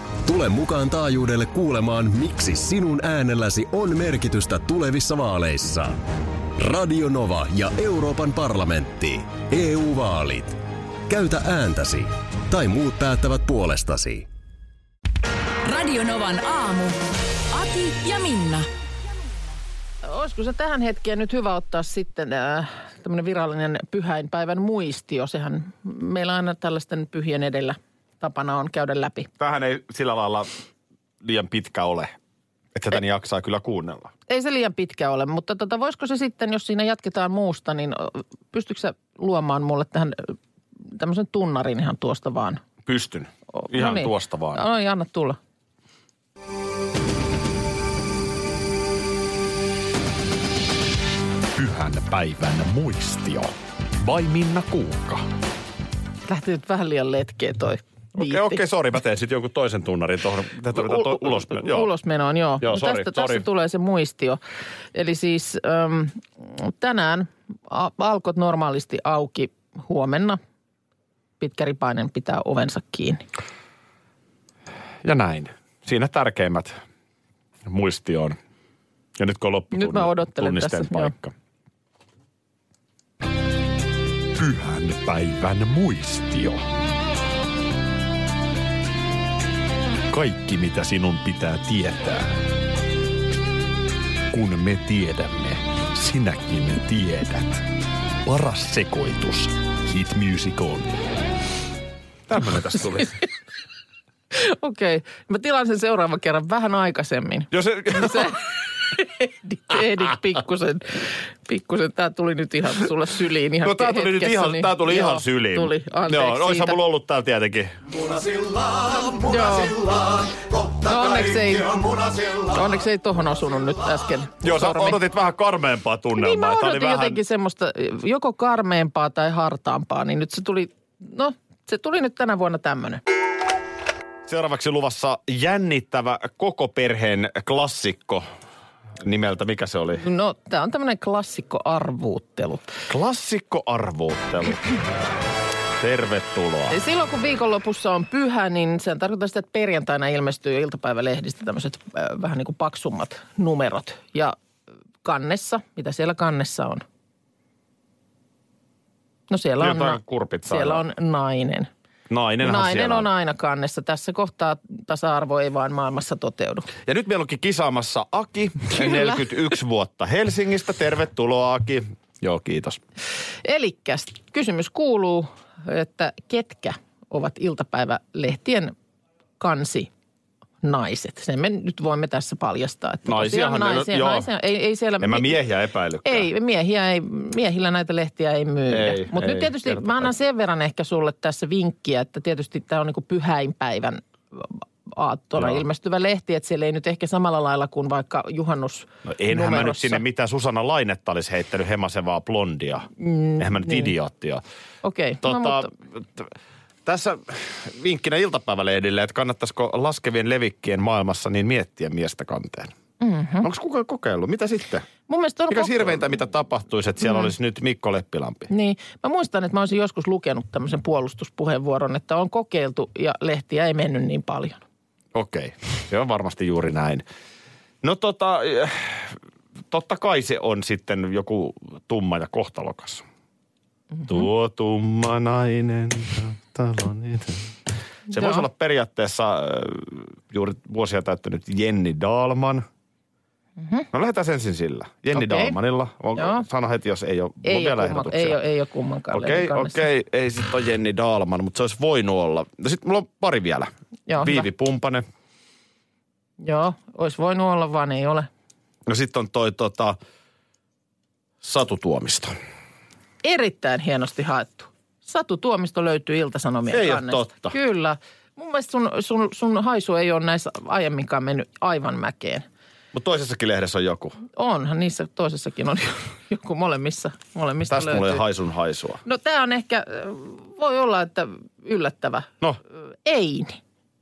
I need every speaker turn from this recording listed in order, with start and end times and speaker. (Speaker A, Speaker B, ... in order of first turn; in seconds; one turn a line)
Speaker A: 0.2-6.0
Speaker A: 6.6-14.3
Speaker B: 15.6-17.0
Speaker B: 17.5-18.7
Speaker C: 20.0-29.3
Speaker D: 29.4-30.5
Speaker D: 31.2-32.1
Speaker D: 32.8-34.1
Speaker C: 34.3-40.3
Speaker C: 40.9-42.6
Speaker D: 42.9-44.6
Speaker C: 43.5-45.4
Speaker D: 51.5-55.3
Speaker C: 56.3-58.6
Speaker D: 58.2-61.9
Speaker C: 60.7-64.4
Speaker D: 62.6-63.5
Speaker C: 64.9-70.4
Speaker C: 71.4-73.2
Speaker D: 75.0-76.8
Speaker D: 77.7-78.4
Speaker D: 79.2-81.3
Speaker C: 79.7-81.1
Speaker D: 84.3-86.6
Speaker D: 90.1-92.4
Speaker D: 94.3-97.7
Speaker D: 98.2-101.0
Speaker D: 102.3-103.2
Speaker C: 104.3-116.8
Speaker D: 107.5-108.3
Speaker D: 113.6-122.5
Speaker C: 119.2-119.8
Speaker C: 120.8-121.8
Speaker C: 122.5-125.0
Speaker D: 124.4-127.2
Speaker C: 126.2-133.0
Speaker D: 134.3-138.2
Speaker D: 139.0-140.1
Speaker C: 140.0-142.7
Speaker D: 142.9-144.7
Speaker D: 145.8-146.8
Speaker C: 146.7-154.3
Speaker C: 155.0-156.8
Speaker C: 159.3-161.7
Speaker D: 159.6-160.8
Speaker D: 162.1-163.1
Speaker C: 162.4-166.7
Speaker D: 166.9-172.8
Speaker C: 168.7-169.3
Speaker C: 173.4-178.7
Speaker C: 179.4-179.9
Speaker C: 180.6-185.4
Speaker D: 183.1-184.3
Speaker D: 185.0-186.3
Speaker C: 186.1-200.0
Speaker D: 188.7-190.1
Speaker D: 195.4-195.6
Speaker D: 199.1-202.9
Speaker C: 203.0-203.9
Speaker D: 203.4-204.4
Speaker C: 204.8-205.7
Speaker D: 205.2-206.3
Speaker D: 206.8-212.7
Speaker C: 213.0-213.5
Speaker D: 213.4-214.9
Speaker C: 215.1-216.0
Speaker D: 215.5-218.5
Speaker C: 218.5-224.6
Speaker D: 225.1-227.0
Speaker D: 227.8-229.2
Speaker D: 229.7-233.0
Speaker D: 234.1-237.5
Speaker D: 238.1-242.7
Speaker C: 238.1-238.4
Speaker C: 243.6-243.9
Speaker D: 243.9-248.4
Speaker C: 245.1-245.6
Speaker C: 246.2-246.4
Speaker C: 247.4-249.8
Speaker D: 249.1-255.1
Speaker C: 254.1-254.5
Speaker C: 256.4-258.3
Speaker D: 258.9-260.0
Speaker D: 261.4-262.3
Speaker C: 263.2-272.4
Speaker D: 266.7-267.5
Speaker D: 272.9-274.2
Speaker C: 274.3-278.2
Speaker D: 277.7-279.0
Speaker C: 279.1-283.6